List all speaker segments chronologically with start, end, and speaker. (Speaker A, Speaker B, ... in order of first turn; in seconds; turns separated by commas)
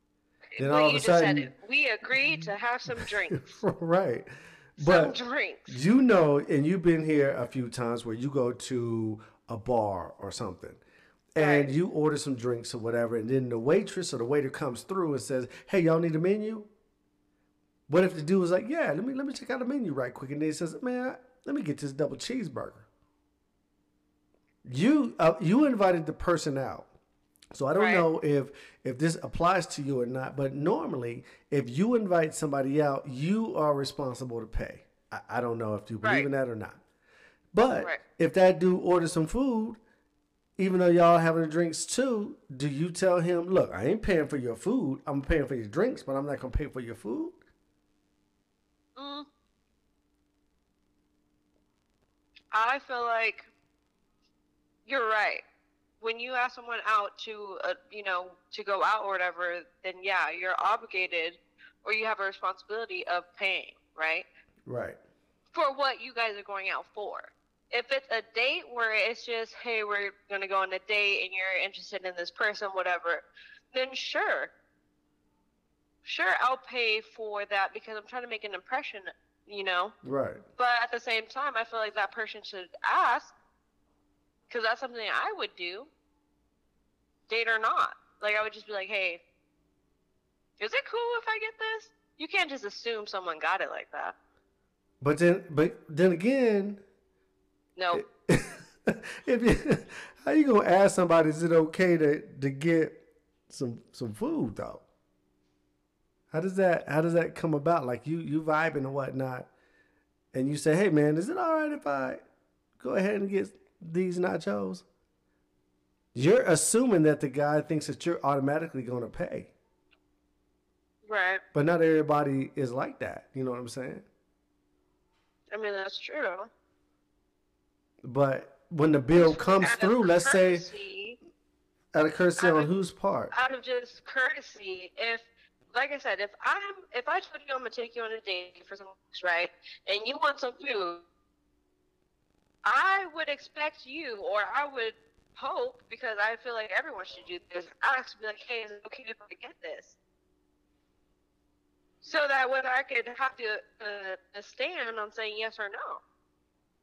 Speaker A: 0.6-3.6, Speaker B: 0.6-1.5, Speaker B: 3.4-5.2, Speaker A: 4.8-5.8, Speaker B: 5.7-10.8, Speaker B: 11.3-16.7, Speaker A: 11.4-11.7, Speaker B: 17.9-22.9, Speaker B: 24.6-26.9, Speaker B: 27.5-36.8, Speaker A: 27.8-28.1, Speaker A: 36.0-36.3, Speaker B: 37.5-39.8, Speaker B: 40.6-47.4, Speaker A: 49.0-49.3, Speaker A: 52.5-53.5, Speaker A: 54.9-55.4, Speaker A: 56.0-64.3, Speaker B: 64.7-65.0, Speaker A: 65.5-74.5, Speaker A: 76.0-79.9, Speaker B: 80.0-80.4, Speaker A: 80.6-83.3, Speaker A: 84.5-85.9, Speaker A: 87.3-89.2, Speaker A: 90.6-94.1, Speaker B: 95.0-96.8, Speaker A: 97.8-98.0, Speaker B: 97.9-104.8, Speaker B: 106.3-109.5, Speaker B: 110.3-112.2, Speaker B: 112.8-114.8, Speaker B: 116.1-119.5, Speaker A: 121.0-121.4, Speaker B: 121.5-124.0, Speaker A: 125.5-126.5, Speaker B: 128.0-130.7, Speaker A: 129.1-131.2, Speaker B: 131.9-133.3, Speaker A: 132.4-132.7, Speaker A: 133.3-141.0, Speaker A: 142.6-150.0, Speaker A: 152.0-156.0